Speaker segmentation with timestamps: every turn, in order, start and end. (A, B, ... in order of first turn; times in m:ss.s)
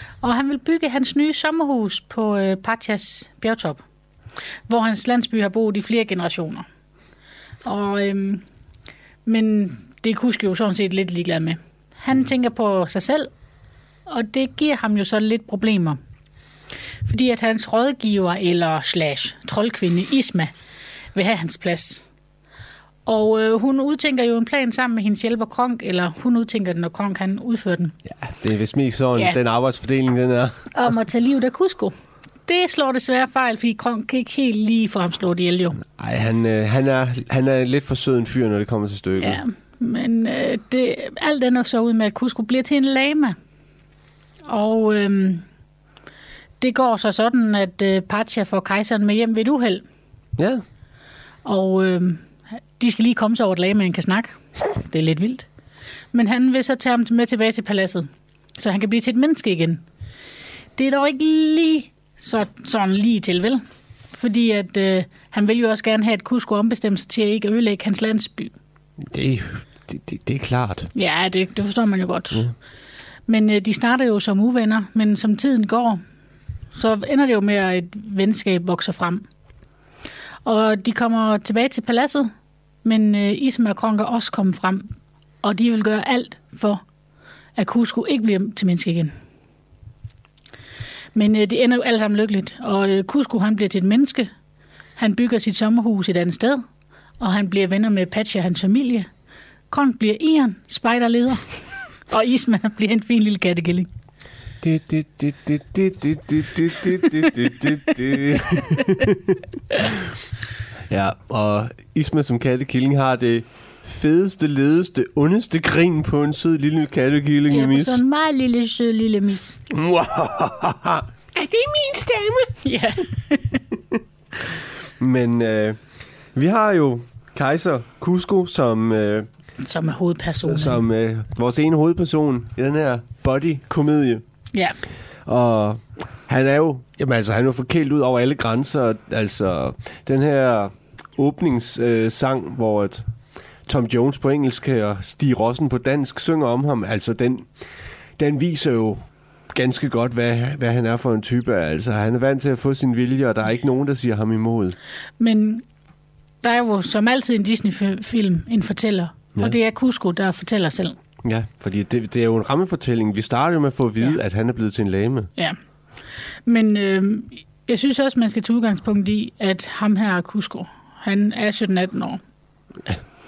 0:00.2-0:03.8 A
0:04.7-0:06.7 A
0:07.6-0:08.4 A
0:09.2-0:13.3 A
0:14.1-0:16.0 A
0:17.0-0:20.5 A
0:21.1-0:22.1 A
0:23.0-0:27.9 A
0:28.0-0:30.6 B
0:30.7-0:31.9 A
0:32.4-0:35.8 A
0:35.8-0:39.4 B
0:39.2-0:43.4 A
0:44.4-0:45.4 A
0:46.6-0:49.8 A
0:50.4-0:50.6 B
0:51.4-0:55.5 A
0:56.1-0:59.8 A
1:00.8-1:08.5 A
1:09.0-1:10.9 B
1:10.9-1:12.5 A
1:13.3-1:16.0 A
1:16.7-1:19.2 A
1:20.4-1:22.3 A
1:22.8-1:24.9 A
1:25.4-1:26.8 A
1:27.6-1:29.1 A
1:31.1-1:34.3 A
1:35.0-1:36.6 A
1:37.2-1:39.1 A
1:39.7-1:43.9 A
1:44.6-1:50.1 B
1:50.9-1:58.0 B
1:57.5-1:59.6 A
1:59.7-2:02.5 B
2:02.6-2:03.6 A
2:05.0-2:05.8 B
2:06.3-2:09.3 B
2:09.6-2:10.8 A
2:10.4-2:14.2 B
2:15.2-2:23.0 B
2:23.7-2:27.5 B
2:28.2-2:34.8 B
2:35.2-2:35.6 A
2:36.4-2:41.0 A
2:41.2-2:45.3 B
2:46.4-2:52.2 A